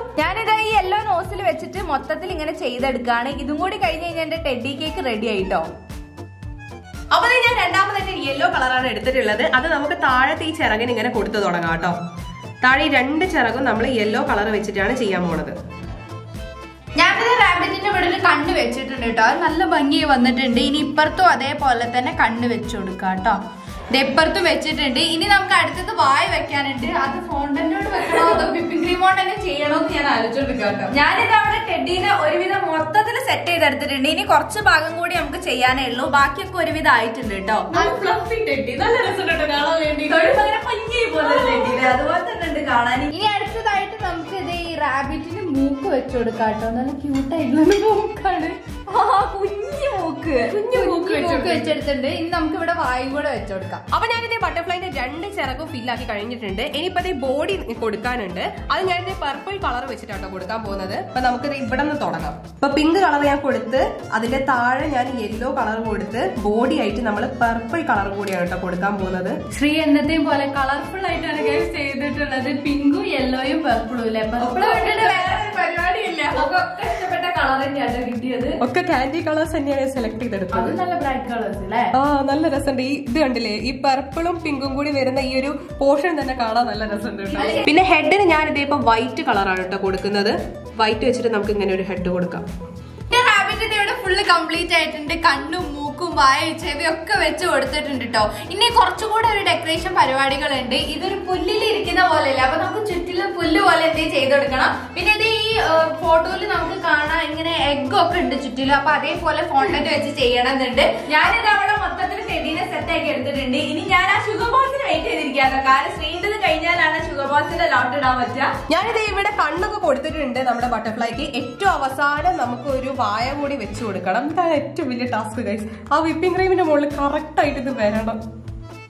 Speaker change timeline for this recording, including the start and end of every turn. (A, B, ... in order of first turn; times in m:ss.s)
0:00.2-0:05.6 A
0:07.1-0:12.0 B
0:12.6-0:15.5 B
0:17.0-0:23.4 C
0:23.9-0:30.9 C
0:30.9-0:37.7 A
0:37.7-0:40.4 B
0:37.7-0:38.1 C
0:40.1-0:43.1 A
0:43.1-0:48.6 C
0:48.9-0:50.5 A
0:50.5-0:51.8 B
0:50.7-0:53.8 C
0:53.9-1:09.4 B
1:09.5-1:16.5 C
1:14.4-1:15.6 A
1:16.3-1:18.6 A
1:18.6-1:20.8 B
1:20.5-1:21.9 C
1:22.0-1:32.4 B
1:27.3-1:27.7 A
1:33.1-1:51.1 C
1:51.1-1:58.5 A
1:58.7-2:08.2 B